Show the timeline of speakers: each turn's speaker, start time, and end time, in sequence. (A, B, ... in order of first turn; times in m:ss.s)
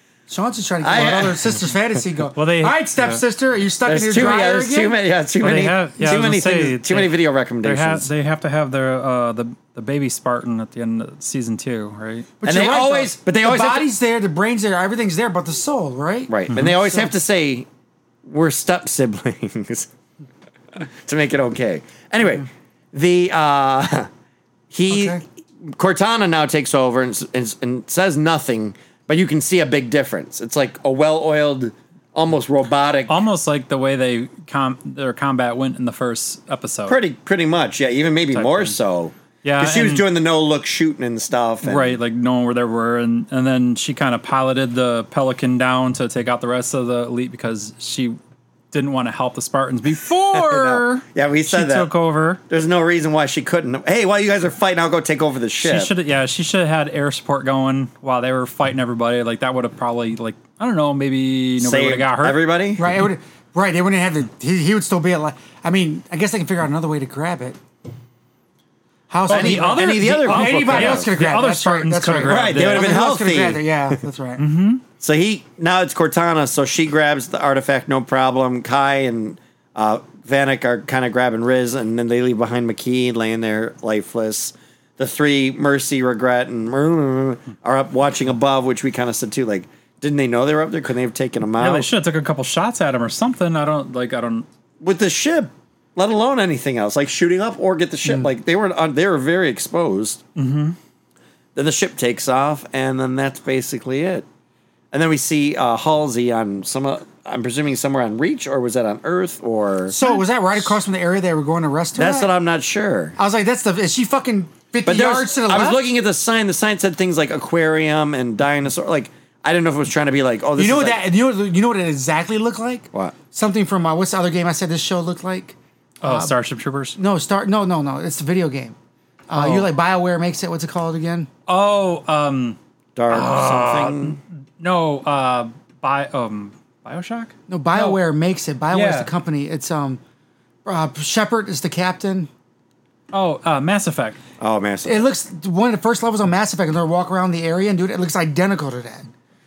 0:00.3-0:05.0 A
0:00.8-0:01.5 B
0:02.4-0:03.2 C
0:03.8-0:08.1 B
0:05.4-0:12.3 C
0:12.4-0:17.1 A
0:12.4-0:13.9 B
0:16.3-0:17.7 B
0:18.2-0:19.9 B
0:20.7-0:24.1 B
0:24.7-0:33.1 B
0:24.9-0:25.2 A
0:33.1-0:37.0 C
0:36.9-0:42.0 B
0:38.3-0:38.7 C
0:39.4-0:40.0 C
0:41.6-0:48.2 C
0:48.7-0:52.4 C
0:50.3-0:51.9 B
0:52.5-0:55.9 B
0:55.6-1:02.4 C
1:01.6-1:02.8 B
1:02.8-1:07.6 A
1:09.1-1:14.4 A
1:09.3-1:11.1 B
1:09.3-1:13.0 C
1:12.2-1:13.7 B
1:14.4-1:14.8 C
1:15.0-1:31.9 B
1:31.6-1:34.4 C
1:34.8-1:40.2 B
1:40.4-1:40.8 C
1:41.5-1:44.2 B
1:44.9-1:50.0 B
1:49.9-1:52.3 A
1:52.0-1:53.2 B
1:53.2-1:55.9 A
1:54.8-2:01.0 B
2:00.6-2:06.3 A
2:06.0-2:07.0 C
2:07.0-2:08.8 A
2:09.3-2:11.3 A
2:09.4-2:09.7 C
2:11.5-2:12.6 C
2:13.0-2:14.2 B
2:13.1-2:18.0 C
2:17.5-2:20.0 A
2:18.7-2:19.1 C
2:20.6-2:22.3 A
2:23.1-2:24.2 C
2:24.4-2:25.1 B
2:24.8-2:29.1 A